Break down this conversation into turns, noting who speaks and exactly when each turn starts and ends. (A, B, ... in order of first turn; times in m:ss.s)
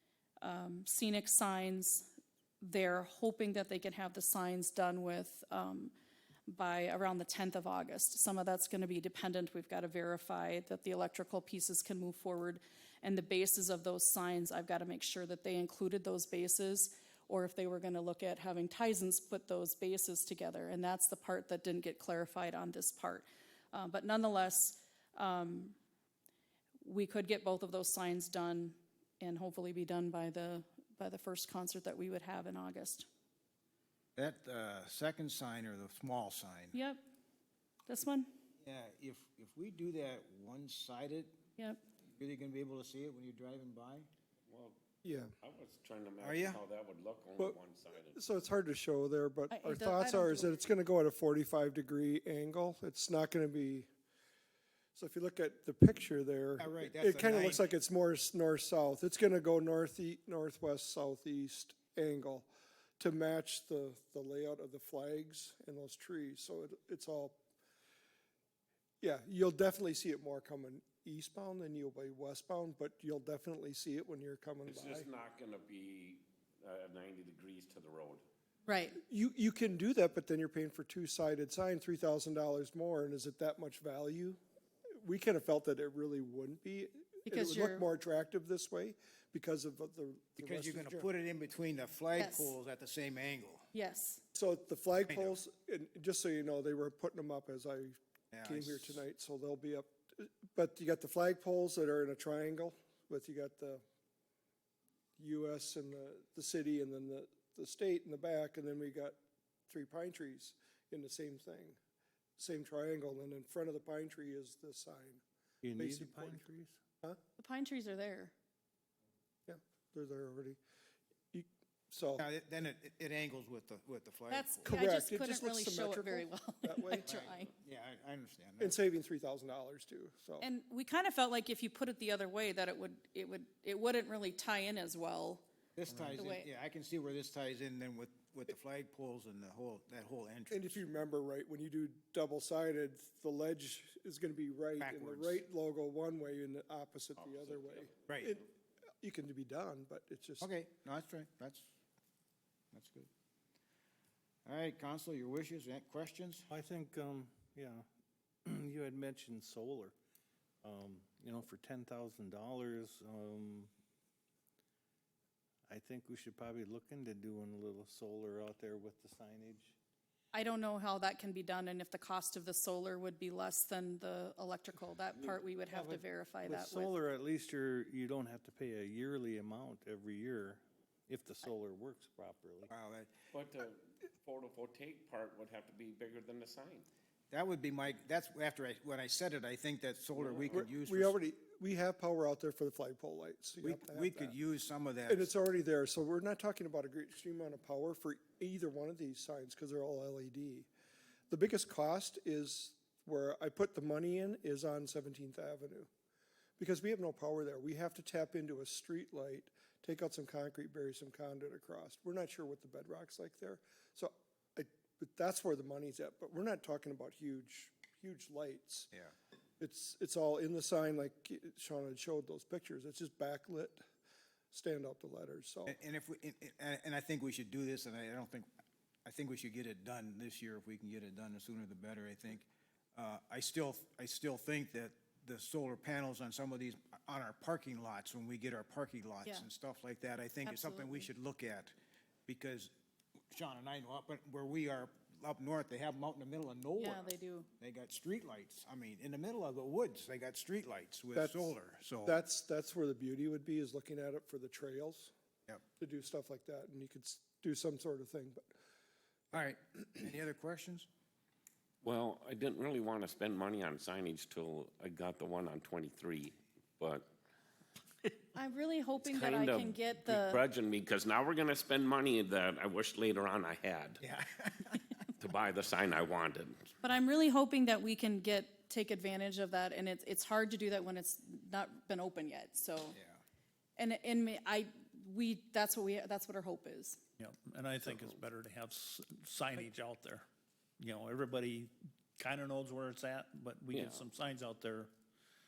0:00.4-0:02.1 A
0:02.6-0:05.9 A
0:06.5-0:25.8 A
0:26.8-0:33.1 A
0:34.2-0:36.8 B
0:36.7-0:37.0 A
0:37.9-0:38.3 A
0:38.6-0:41.4 B
0:42.2-0:44.1 B
0:44.5-0:44.8 C
0:45.0-0:45.3 D
0:45.4-0:48.2 C
0:46.2-0:46.6 B
0:48.1-0:53.9 D
0:49.5-0:50.6 A
0:55.0-1:07.4 D
0:56.6-0:57.6 B
1:09.0-1:15.1 D
1:14.7-1:18.2 C
1:18.7-1:19.0 A
1:19.1-1:24.4 D
1:25.0-1:31.1 D
1:27.3-1:27.9 A
1:30.4-1:33.7 B
1:32.2-1:32.6 A
1:33.7-1:34.2 A
1:34.4-1:43.8 D
1:35.1-1:35.4 B
1:38.3-1:39.0 B
1:45.2-1:49.2 D
1:49.7-1:51.8 D
1:52.4-1:55.2 D
1:55.6-1:56.8 E
1:55.8-1:56.4 D
1:57.4-1:58.3 A
1:59.5-2:00.6 D
2:01.3-2:02.2 D
2:02.2-2:04.8 B
2:04.3-2:07.5 A
2:04.6-2:07.1 D
2:07.1-2:08.8 B
2:08.6-2:10.5 D
2:10.4-2:15.4 A
2:15.8-2:20.8 B
2:15.9-2:16.3 E
2:16.2-2:16.5 A
2:20.5-2:28.5 D
2:24.8-2:25.4 B
2:27.2-2:28.0 C
2:28.1-2:28.3 B
2:29.0-2:30.5 D
2:30.4-2:31.7 B
2:32.7-2:33.1 B
2:34.4-2:36.5 B
2:36.5-2:37.8 E
2:38.5-2:39.9 E
2:40.6-2:43.7 E
2:45.7-2:49.8 E
2:50.3-2:56.9 A
2:55.7-3:02.7 E
3:02.7-3:03.1 B
3:03.3-3:06.9 C
3:07.3-3:11.2 B
3:10.2-3:10.7 C
3:10.5-3:14.4 D
3:13.6-3:15.3 B
3:15.1-3:20.7 D
3:21.3-3:25.9 D
3:26.6-3:38.9 D
3:39.6-3:43.8 D
3:44.5-3:45.8 D
3:45.6-3:48.5 B
3:49.0-4:01.7 B
4:00.4-4:01.1 A
4:02.3-4:02.7 B
4:03.3-4:12.2 B
4:06.8-4:07.5 A
4:11.2-4:11.5 D
4:12.0-4:15.1 D
4:15.8-4:18.5 D
4:19.3-4:20.9 B
4:21.8-4:27.1 C
4:28.4-4:30.4 A
4:29.0-4:34.0 C
4:34.0-4:34.9 B
4:35.2-4:36.7 C
4:36.8-4:43.0 A
4:42.9-4:43.2 B
4:43.8-4:47.0 A
4:47.2-4:50.3 F
4:50.8-4:54.9 F
4:53.7-4:54.1 C